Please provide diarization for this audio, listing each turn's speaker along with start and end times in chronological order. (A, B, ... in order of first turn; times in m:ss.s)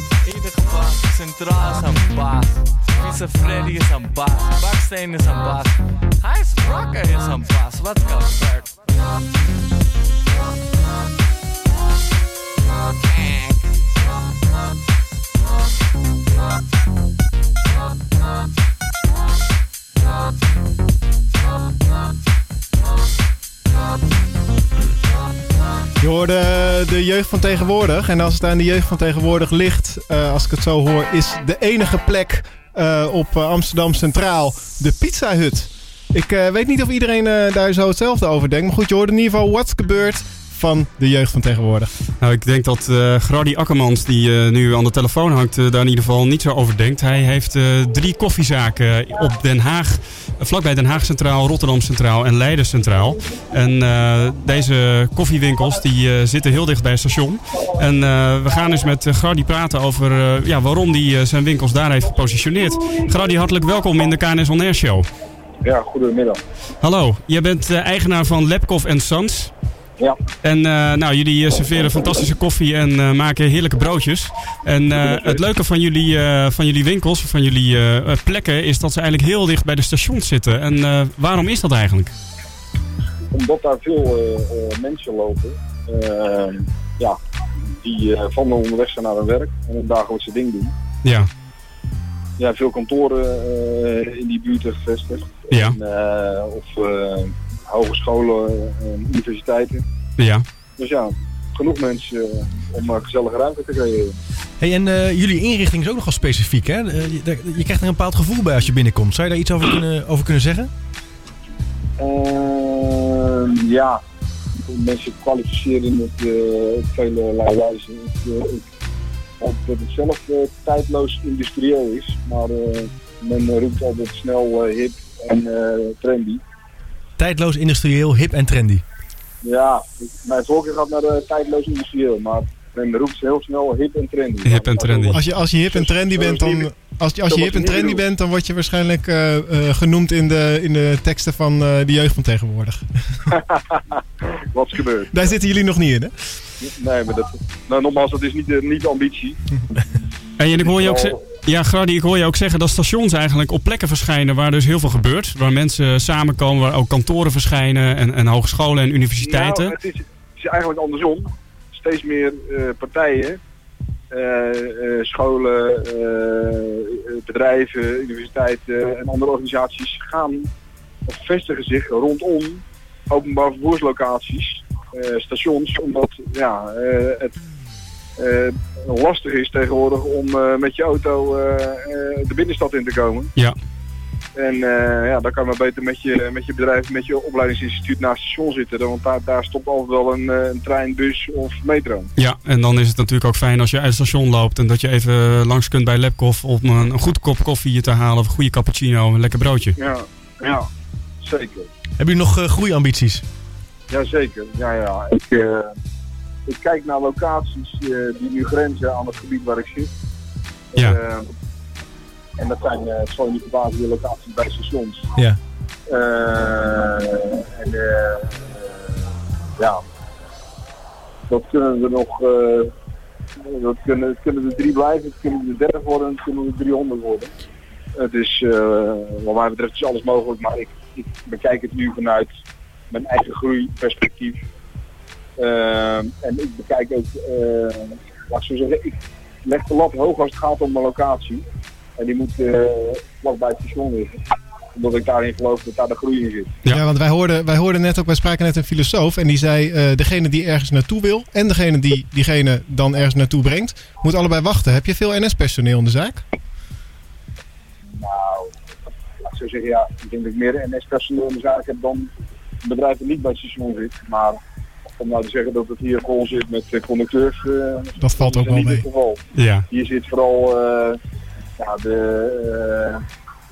0:00.2-0:08.8 A
0:13.0-0:13.6 A
0:26.0-0:41.9 B
0:42.2-1:05.1 C
1:05.6-1:06.4 D
1:06.8-1:09.5 C
1:10.4-1:22.1 C
1:14.9-1:15.4 D
1:23.3-1:27.2 D
1:27.8-1:30.7 D
1:31.0-1:31.3 C
1:32.4-1:39.8 D
1:35.5-1:35.8 C
1:40.2-1:40.4 C
1:40.8-1:44.1 D
1:44.6-1:50.7 E
1:52.0-1:54.0 D
1:54.7-1:58.6 D
1:59.4-2:06.4 D
2:07.2-2:08.8 E
2:09.4-2:16.7 D
2:14.4-2:15.2 C
2:15.1-2:22.9 B
2:17.3-2:18.0 D
2:23.5-2:23.8 D
2:24.5-2:25.3 D
2:25.1-2:26.1 B
2:26.6-2:29.4 D
2:30.4-2:39.7 C
2:30.5-2:31.2 D
2:39.2-2:43.4 D
2:44.1-2:50.5 D
2:51.1-2:57.4 D
2:58.2-3:03.3 D
3:04.4-3:12.1 D
3:12.2-3:19.8 C
3:19.8-3:20.7 D
3:21.2-3:21.7 D
3:22.0-3:23.2 E
3:23.9-3:25.7 D
3:26.5-3:29.9 D
3:30.8-3:31.3 D
3:32.4-3:35.1 D
3:35.9-3:38.6 D
3:41.3-3:42.7 D
3:43.4-3:47.3 D
3:48.0-3:52.3 D
3:52.9-3:54.4 D
3:55.4-4:01.4 D
4:02.0-4:04.2 D
4:04.7-4:06.5 D
4:06.7-4:16.2 B
4:18.0-4:18.5 D
4:19.2-4:22.1 D
4:22.6-4:24.4 D
4:25.0-4:31.0 D
4:28.0-4:28.8 B
4:29.3-4:29.6 C
4:31.6-4:33.0 D